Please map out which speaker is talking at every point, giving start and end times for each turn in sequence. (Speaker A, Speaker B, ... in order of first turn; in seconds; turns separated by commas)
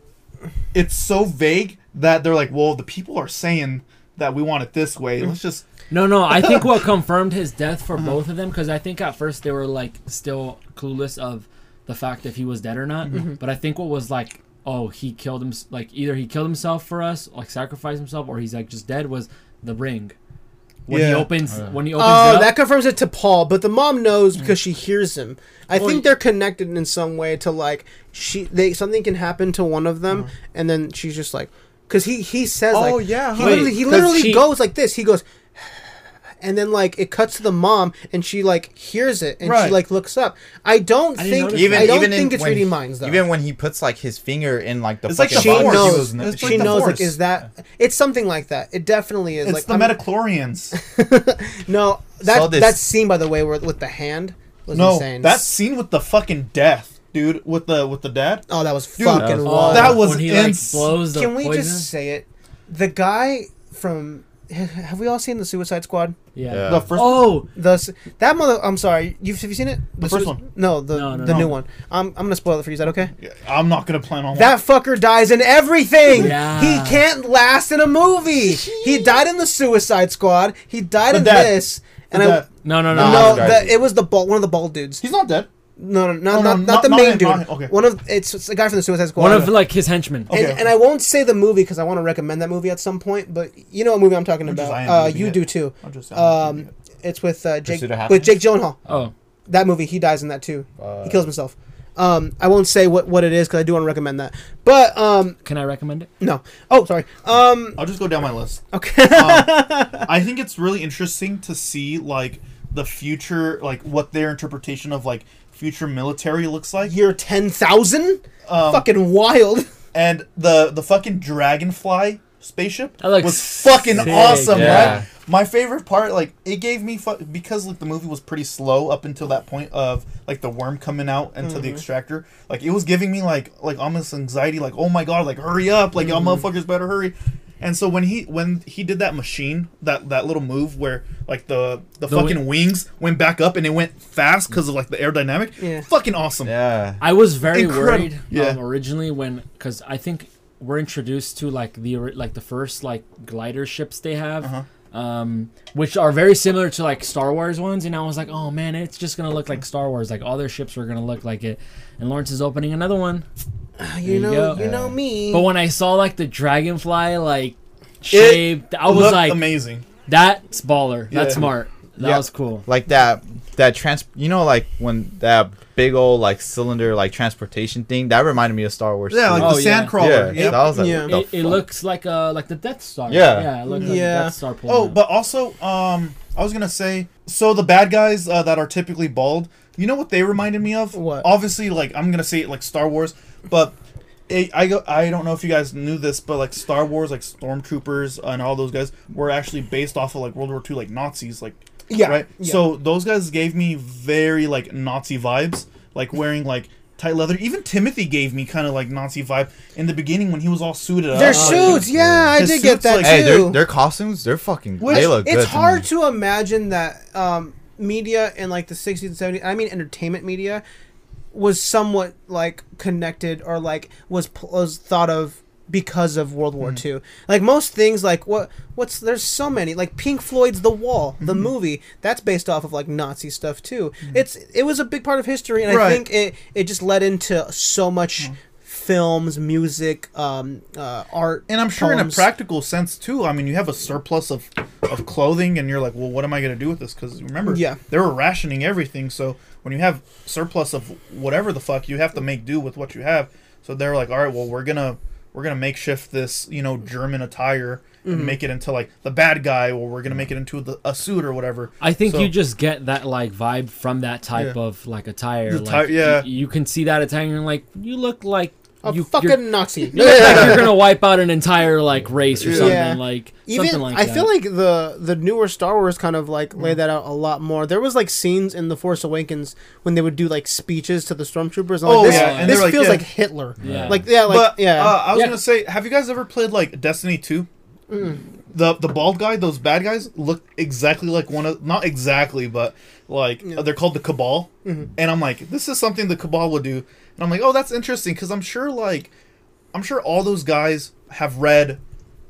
Speaker A: 0.7-5.7, Speaker B: 5.9-20.1, Speaker A: 6.4-6.7, Speaker B: 20.9-22.6, Speaker A: 20.9-21.3, Speaker C: 21.9-35.2, Speaker B: 25.8-26.1, Speaker A: 32.7-33.8, Speaker B: 33.3-34.5, Speaker C: 36.4-43.2, Speaker A: 39.4-39.8, Speaker B: 41.1-42.0, Speaker D: 41.5-46.8, Speaker A: 45.0-47.2, Speaker C: 45.3-50.0, Speaker A: 49.4-50.7, Speaker C: 50.7-55.4, Speaker D: 52.2-52.8, Speaker A: 54.7-58.5, Speaker C: 58.5-60.1, Speaker A: 59.0-61.0, Speaker D: 59.1-59.7, Speaker B: 59.4-61.9, Speaker C: 61.0-66.2, Speaker B: 66.3-67.5, Speaker D: 66.5-66.9, Speaker A: 66.7-67.4, Speaker C: 67.5-73.1, Speaker A: 70.0-70.5, Speaker B: 70.9-71.5, Speaker A: 71.2-71.5, Speaker A: 73.2-74.5, Speaker C: 74.3-85.0, Speaker B: 76.1-77.0, Speaker A: 78.3-79.2, Speaker A: 81.1-82.5, Speaker B: 82.6-83.6, Speaker D: 82.8-83.8, Speaker A: 85.0-85.5, Speaker C: 85.8-89.6, Speaker A: 86.3-87.7, Speaker B: 89.2-90.3, Speaker A: 90.3-90.7, Speaker C: 90.3-98.8, Speaker A: 94.4-96.7, Speaker D: 97.6-99.0, Speaker C: 99.5-105.4, Speaker D: 100.8-101.2, Speaker B: 105.4-106.1, Speaker C: 106.2-107.8, Speaker A: 107.8-117.0, Speaker C: 108.7-110.1, Speaker C: 116.8-119.7, Speaker A: 118.5-118.8, Speaker A: 119.9-146.5, Speaker B: 123.0-125.0, Speaker D: 124.1-125.0, Speaker C: 131.4-131.8, Speaker B: 142.1-142.5, Speaker C: 145.6-145.8, Speaker D: 146.4-147.0, Speaker B: 147.0-163.2, Speaker A: 147.5-148.6, Speaker C: 163.8-165.5, Speaker B: 164.0-164.7, Speaker D: 164.6-164.9, Speaker B: 165.3-169.4, Speaker A: 168.1-169.8, Speaker B: 170.1-172.6, Speaker A: 171.1-171.4, Speaker D: 172.0-181.6, Speaker A: 179.1-180.8, Speaker B: 179.4-185.0, Speaker C: 180.6-181.2, Speaker D: 183.1-183.6, Speaker C: 183.7-184.3, Speaker A: 184.7-193.7, Speaker C: 190.9-191.3, Speaker A: 194.3-213.5, Speaker C: 201.9-202.6, Speaker C: 211.1-213.6, Speaker B: 211.2-211.8, Speaker D: 211.9-212.4, Speaker D: 213.0-215.8, Speaker A: 214.8-215.2, Speaker C: 214.8-220.6, Speaker C: 221.3-242.3, Speaker A: 231.2-231.5, Speaker A: 235.7-236.1, Speaker A: 241.5-262.3, Speaker C: 247.4-247.8, Speaker C: 258.0-258.4, Speaker B: 261.8-274.3, Speaker A: 265.5-266.3, Speaker C: 268.8-270.8, Speaker A: 270.2-270.5, Speaker A: 272.4-272.8, Speaker C: 272.4-285.0, Speaker A: 281.8-283.1, Speaker B: 282.0-282.8, Speaker B: 283.6-284.0, Speaker D: 283.6-284.0, Speaker A: 284.1-287.5, Speaker B: 284.9-285.4, Speaker C: 287.9-288.2, Speaker A: 288.5-299.1, Speaker A: 299.7-301.8